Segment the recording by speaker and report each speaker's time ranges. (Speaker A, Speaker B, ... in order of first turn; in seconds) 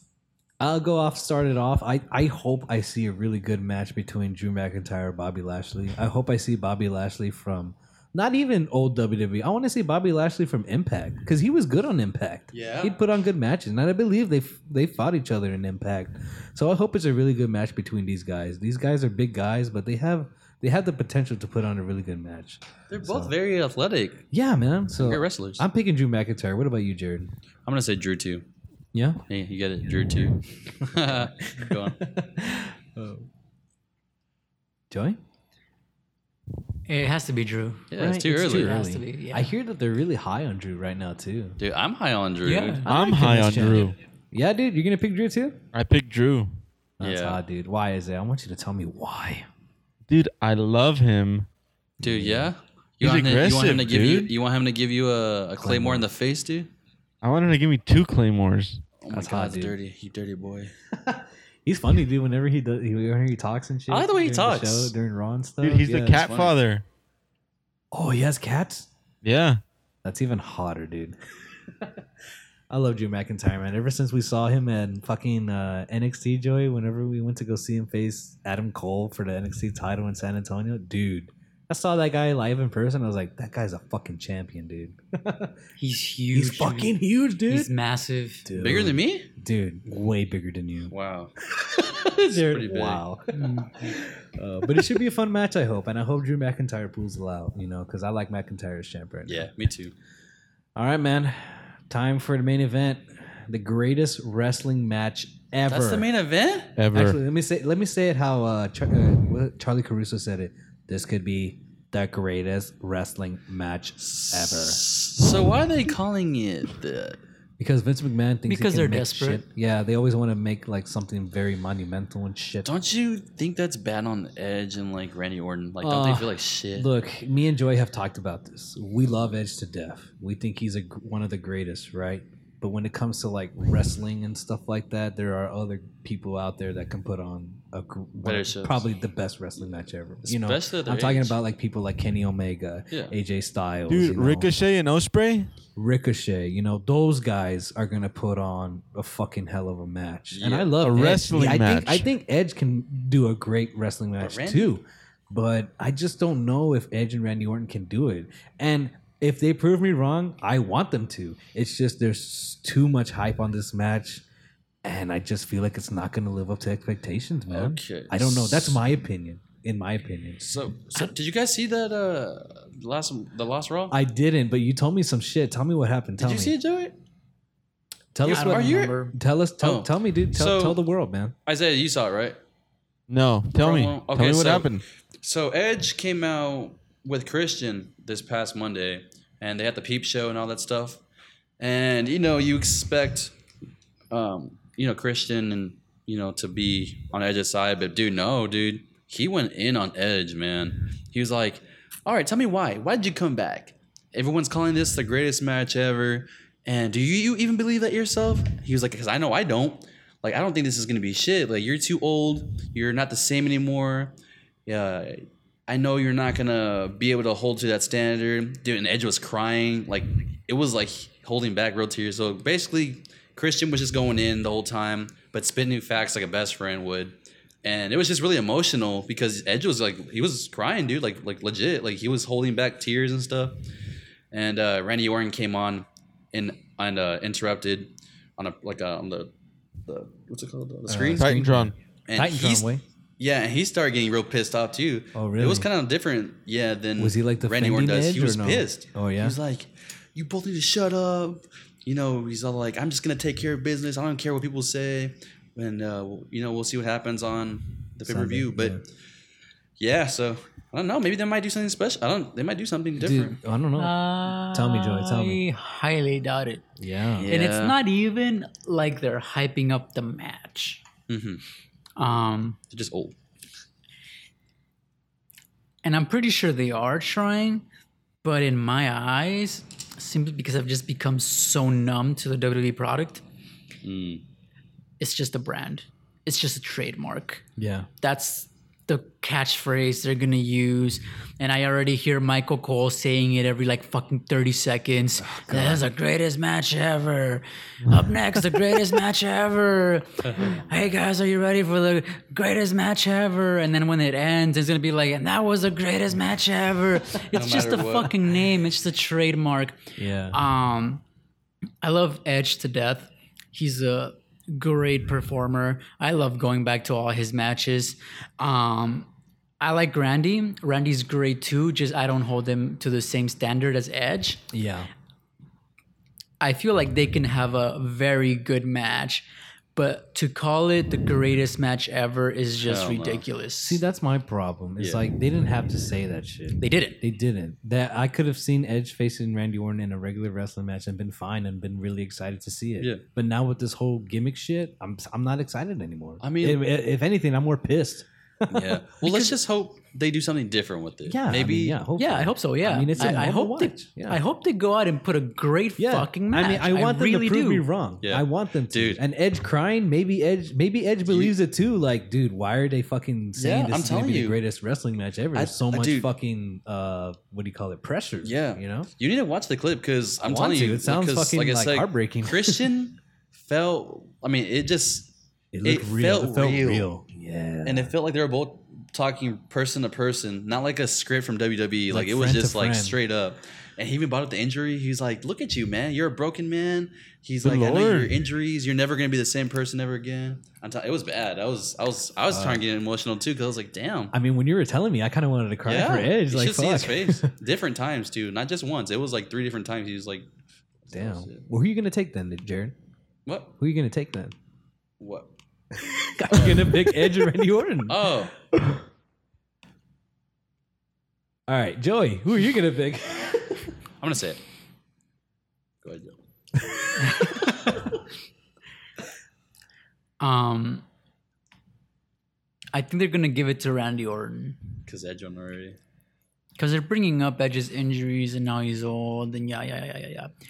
Speaker A: 0.6-23.3, 24.3-27.3, 28.9-29.2, 31.0-33.3, 34.9-35.2, 37.9-41.6, 42.8-45.6, 47.0-49.5, 52.0-52.5, 55.6-56.1, 59.1-59.7, 61.0-66.2, 67.9-68.9, 70.0-71.2, 72.7-85.5, 86.3-87.7, 88.5-90.9, 91.5-99.5, 100.8-106.1, 106.9-114.8, 117.6-122.7, 125.8-144.5, 145.8-164.2, 164.8-170.5, 173.9-176.5, 178.1-181.3, 240.9-242.8, 245.1-245.7, 247.0-249.4, 258.1-258.8, 263.0-265.4, 266.8-267.3, 287.6-287.9, 295.2-295.8, 310.0-310.4, 324.5-324.9, 333.6-349.3, 351.1-354.2, 355.8-368.9, 370.2-372.6, 375.5-377.9, 381.9-383.0, 392.3-392.6, 394.1-397.3, 400.9-402.8, 403.6-404.3, 405.8-408.1, 411.5-413.7, 417.3-417.7
Speaker B: 12.5-13.0, 22.9-24.3, 25.0-25.6, 27.6-28.4, 29.3-32.0, 37.9-38.8, 41.6-42.9, 47.0-47.4, 52.0-56.7, 59.0-60.7, 63.9-64.9, 66.1-66.5, 88.5-89.3, 90.9-91.3, 92.1-93.0, 99.2-99.9, 105.7-106.8, 114.0-117.2, 122.6-126.9, 138.2-138.8, 140.2-141.4, 150.3-150.7, 154.2-154.8, 167.5-168.8, 170.4-174.0, 176.2-176.9, 178.2-179.0, 179.6-180.8, 181.4-182.4, 183.5-191.0, 191.6-193.3, 194.1-214.1, 214.7-233.6, 234.3-239.3, 239.8-241.3, 242.1-242.7, 243.2-258.8, 259.8-263.4, 267.2-267.8, 271.1-271.4, 272.7-273.1, 283.8-284.2, 300.2-300.6, 307.3-308.3, 332.6-333.2, 334.8-335.1, 346.2-346.6, 348.5-351.8, 358.0-359.0, 361.1-361.4, 363.4-364.4, 365.3-366.1, 368.2-375.1, 375.6-376.9, 377.6-394.1, 395.6-400.3, 400.9-401.4, 403.2-403.5, 405.0-405.3, 406.3-406.9, 407.9-408.3, 414.0-414.4, 415.8-416.2, 424.9-425.8
Speaker C: 36.9-39.5, 42.4-42.9, 85.8-87.0, 87.5-88.5, 93.3-93.9, 118.5-119.4, 178.3-179.1, 263.8-266.6, 267.3-270.8, 271.9-272.6, 275.8-277.6, 278.2-283.2, 285.0-287.4, 288.0-309.8, 310.3-311.0, 311.8-319.1, 319.6-324.4, 326.4-333.8, 336.6-337.0, 351.9-357.6, 420.2-420.8, 422.7-424.6, 426.6-430.3
Speaker D: 42.9-44.0, 45.7-46.5, 50.1-51.5, 53.0-54.3, 57.2-58.8, 65.6-66.8, 69.2-69.6, 106.8-107.2, 143.9-145.5, 150.8-152.1, 183.1-184.8, 241.2-241.7, 387.4-388.2